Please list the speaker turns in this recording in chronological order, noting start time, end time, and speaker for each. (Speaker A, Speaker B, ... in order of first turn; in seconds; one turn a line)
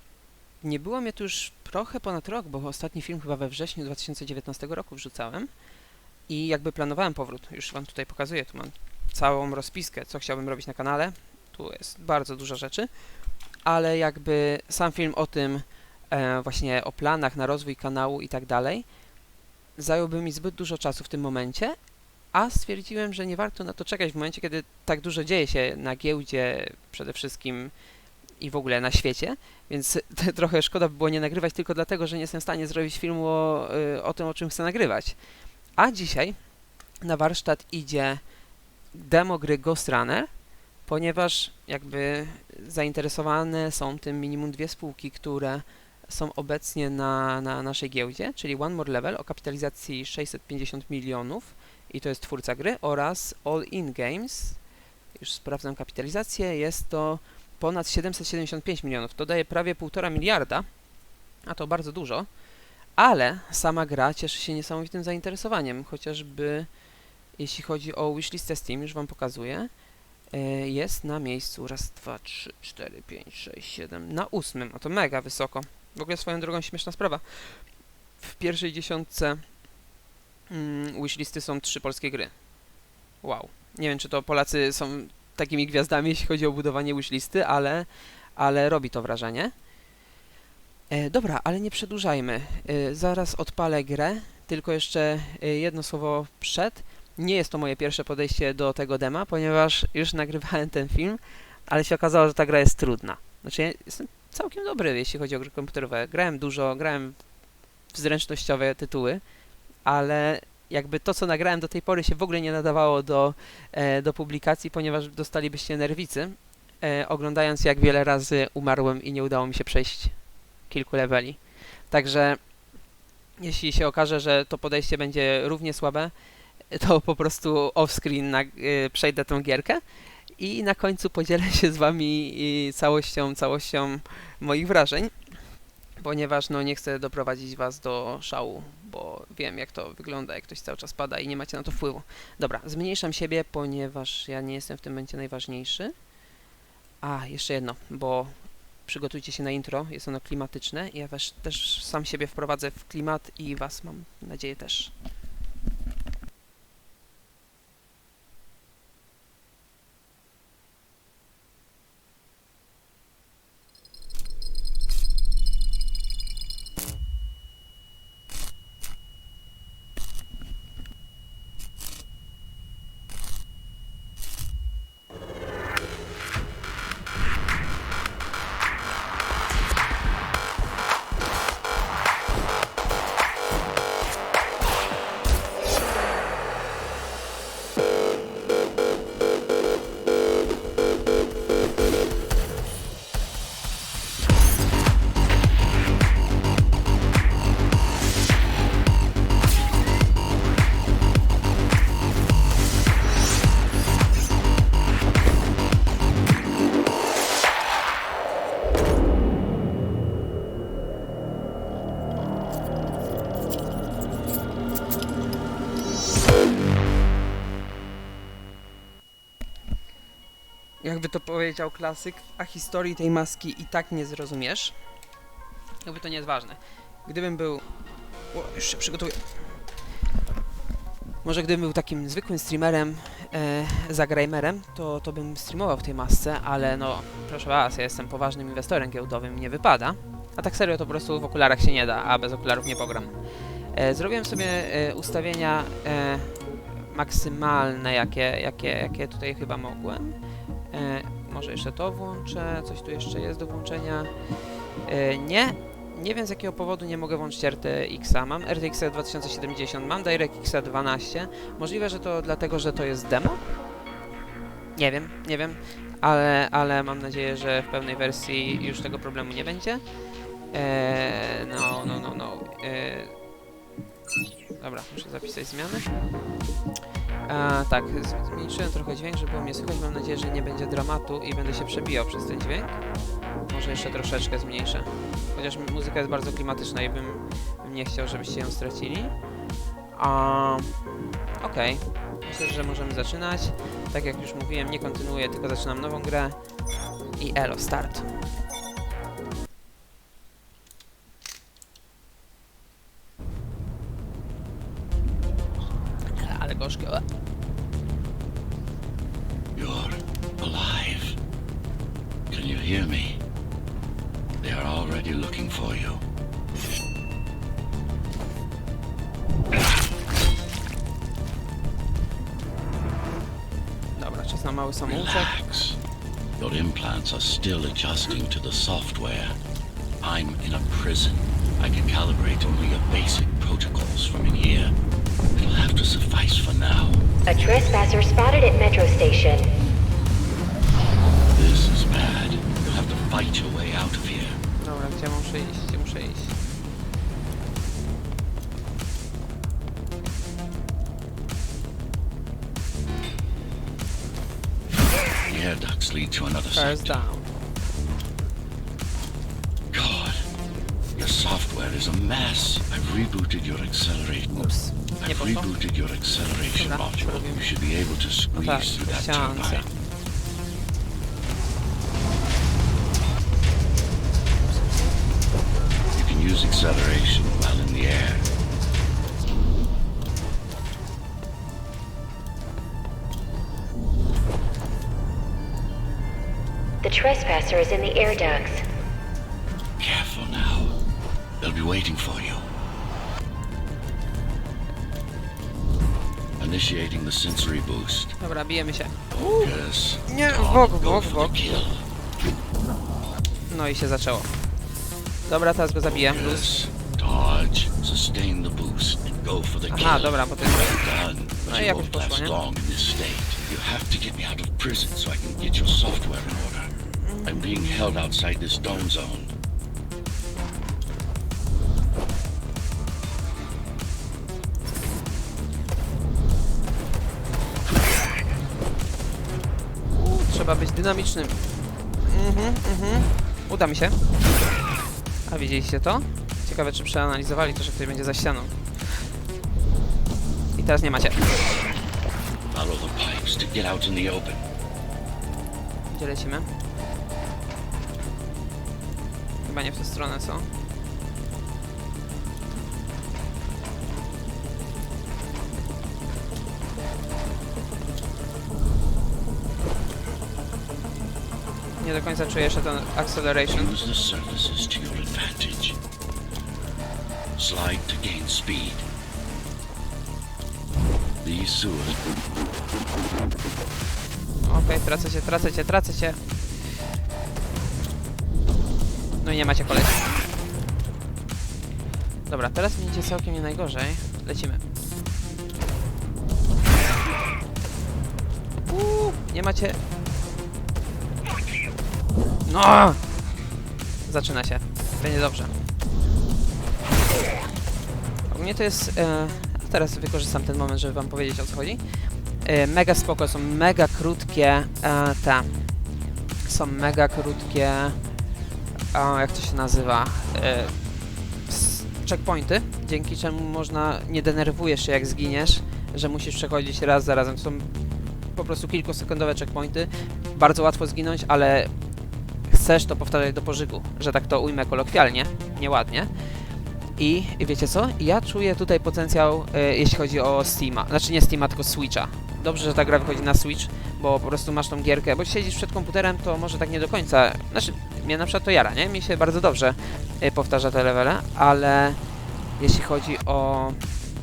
Speaker A: 0.6-5.5
Speaker A: 6.3-12.9
Speaker A: 13.6-18.9
Speaker A: 19.8-21.8
Speaker A: 22.3-27.7
Speaker A: 28.4-35.2
Speaker A: 35.8-36.4
Speaker A: 37.0-38.2
Speaker A: 38.9-40.3
Speaker A: 40.9-54.6
Speaker A: 55.1-60.8
Speaker A: 61.5-62.3
Speaker A: 63.0-66.7
Speaker A: 67.4-69.7
Speaker A: 70.3-77.7
Speaker A: 78.2-79.6
Speaker A: 80.5-82.4
Speaker A: 83.2-89.5
Speaker A: 90.9-107.3
Speaker A: 107.9-109.2
Speaker A: 109.8-122.5
Speaker A: 123.4-126.1
Speaker A: 126.7-129.8
Speaker A: 130.4-135.2
Speaker A: 136.0-145.9
Speaker A: 147.0-154.9
Speaker A: 220.8-224.8
Speaker A: 225.8-227.6
Speaker A: 228.3-229.4
Speaker A: 231.2-243.1
Speaker A: 243.7-250.2
Speaker A: 250.7-254.1
Speaker A: 254.8-263.4
Speaker A: 264.8-269.9
Speaker A: 270.5-273.2
Speaker A: 274.6-275.9
Speaker A: 277.2-282.9
Speaker A: 283.4-289.1
Speaker A: 289.9-296.4
Speaker A: 297.2-298.1
Speaker A: 306.1-307.0
Speaker B: 309.6-311.2
Speaker B: 312.3-313.2
Speaker B: 314.4-316.0
Speaker A: 323.9-325.3
Speaker B: 324.9-325.8
Speaker B: 326.4-329.4
Speaker B: 330.0-334.7
Speaker B: 335.3-337.0
Speaker C: 337.2-339.5
Speaker B: 341.3-344.4
Speaker A: 344.6-346.4
Speaker B: 355.3-357.0
Speaker A: 356.6-357.3
Speaker B: 359.7-360.2
Speaker B: 360.9-369.6
Speaker A: 364.4-365.5
Speaker A: 366.5-367.4
Speaker A: 368.3-369.7
Speaker B: 375.9-378.3
Speaker C: 386.8-388.6
Speaker B: 389.8-390.8
Speaker B: 391.4-392.4
Speaker B: 396.4-398.2
Speaker A: 398.2-401.3
Speaker B: 399.1-401.8
Speaker A: 403.5-404.3
Speaker A: 405.2-406.5
Speaker B: 406.0-416.7
Speaker A: 409.7-410.8
Speaker A: 411.4-412.4
Speaker A: 417.0-418.1
Speaker B: 417.2-419.3
Speaker A: 429.9-434.0
Speaker A: 435.3-439.1
Speaker A: 440.6-441.2
Speaker B: 442.5-444.4
Speaker A: 445.9-446.5
Speaker A: 449.4-450.5
Speaker A: 461.8-463.7
Speaker B: 463.4-465.8
Speaker B: 467.4-468.8
Speaker B: 471.2-472.0
Speaker A: 474.4-476.2
Speaker A: 479.2-480.0
Speaker A: 482.3-484.6
Speaker A: 488.7-489.8
Speaker A: 492.4-493.0
Speaker A: 494.1-495.5
Speaker A: 498.3-505.8
Speaker A: 506.4-508.0
Speaker A: 508.9-510.9
Speaker A: 511.4-521.7
Speaker A: 522.5-526.4
Speaker A: 527.0-542.0
Speaker A: 542.6-543.9